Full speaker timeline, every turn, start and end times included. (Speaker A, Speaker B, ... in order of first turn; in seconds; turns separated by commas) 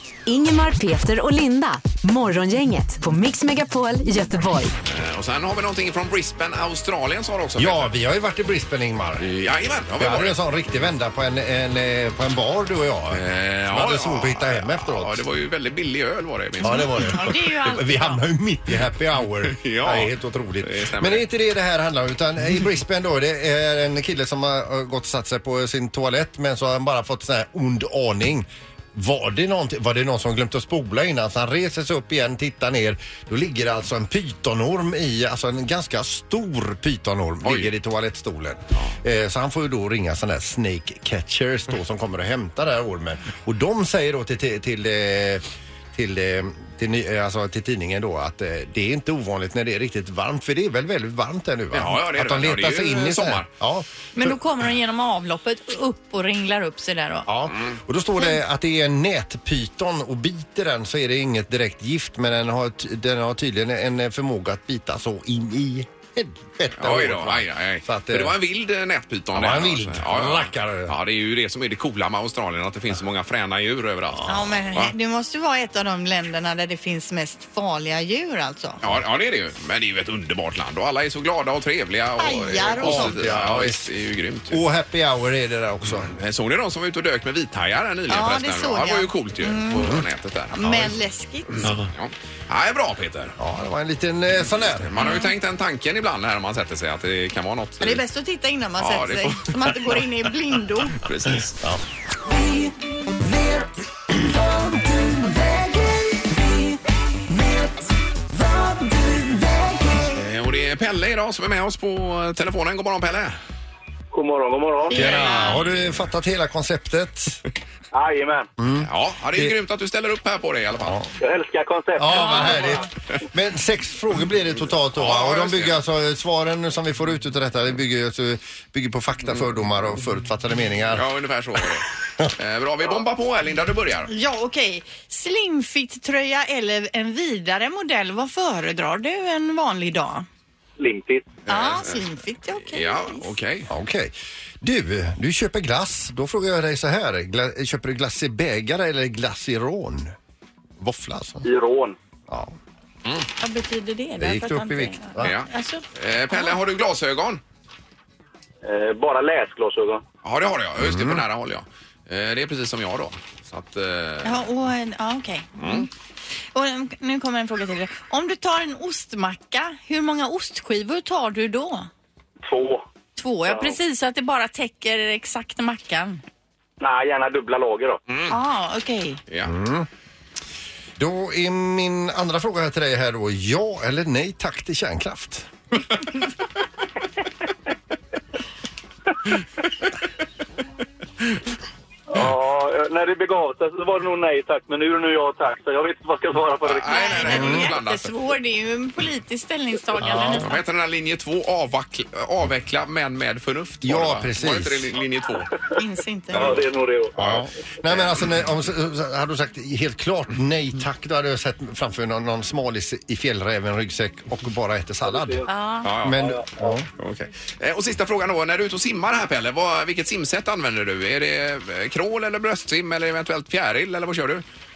Speaker A: 0.3-4.7, Speaker B: 4.9-7.9, Speaker C: 7.6-9.3, Speaker B: 9.2-10.3, Speaker C: 10.0-15.2, Speaker B: 13.1-17.2, Speaker C: 16.6-53.9, Speaker D: 16.6-18.2, Speaker B: 19.4-21.3, Speaker B: 37.4-37.7, Speaker B: 51.7-53.5, Speaker D: 54.1-57.3, Speaker C: 57.3-68.4, Speaker B: 66.8-74.9, Speaker C: 69.3-70.9, Speaker D: 74.3-78.8, Speaker B: 78.8-84.6, Speaker D: 82.2-83.2, Speaker C: 82.7-83.9, Speaker C: 84.5-86.1, Speaker B: 86.0-90.9, Speaker D: 88.1-90.0, Speaker D: 90.5-91.7, Speaker B: 91.5-93.3, Speaker C: 93.4-94.9, Speaker B: 94.8-98.0, Speaker D: 95.0-95.3, Speaker D: 97.8-101.0, Speaker B: 98.8-100.0, Speaker B: 101.0-101.6, Speaker B: 110.1-113.3, Speaker E: 114.1-115.3, Speaker D: 114.9-115.6, Speaker C: 115.0-117.4, Speaker B: 115.2-115.8, Speaker E: 117.9-118.5, Speaker C: 118.6-119.5, Speaker B: 118.8-121.0, Speaker C: 120.8-121.1, Speaker E: 121.2-122.9, Speaker C: 122.0-131.1, Speaker B: 122.2-122.5, Speaker B: 125.0-125.8, Speaker B: 130.9-134.1, Speaker D: 134.1-140.3, Speaker E: 140.8-141.3, Speaker B: 141.5-142.0, Speaker D: 141.5-143.3, Speaker B: 142.6-143.7, Speaker C: 143.7-150.1, Speaker C: 150.8-151.4, Speaker E: 151.4-152.0, Speaker C: 152.3-152.6, Speaker D: 153.4-156.6, Speaker C: 154.2-155.3, Speaker B: 155.2-157.4, Speaker E: 158.6-160.0, Speaker B: 160.2-164.5, Speaker C: 160.8-161.2, Speaker D: 164.2-165.9, Speaker B: 165.6-165.9, Speaker D: 166.5-171.9, Speaker E: 172.4-172.8, Speaker D: 173.2-176.2, Speaker E: 173.5-173.8, Speaker E: 176.8-178.0, Speaker B: 178.1-178.4, Speaker D: 178.3-179.2, Speaker B: 179.3-179.5, Speaker C: 179.4-179.9, Speaker C: 181.0-185.5, Speaker E: 192.1-197.4, Speaker B: 196.6-198.1, Speaker D: 196.9-200.6, Speaker C: 197.3-197.7, Speaker C: 200.0-200.5, Speaker B: 200.1-205.5, Speaker C: 203.8-204.9, Speaker D: 205.8-206.5, Speaker E: 206.3-207.4, Speaker C: 207.2-215.4, Speaker B: 207.2-208.2, Speaker E: 215.0-215.5, Speaker D: 215.5-215.9, Speaker B: 215.8-216.2, Speaker C: 216.0-216.9, Speaker E: 216.2-216.8, Speaker B: 217.0-224.4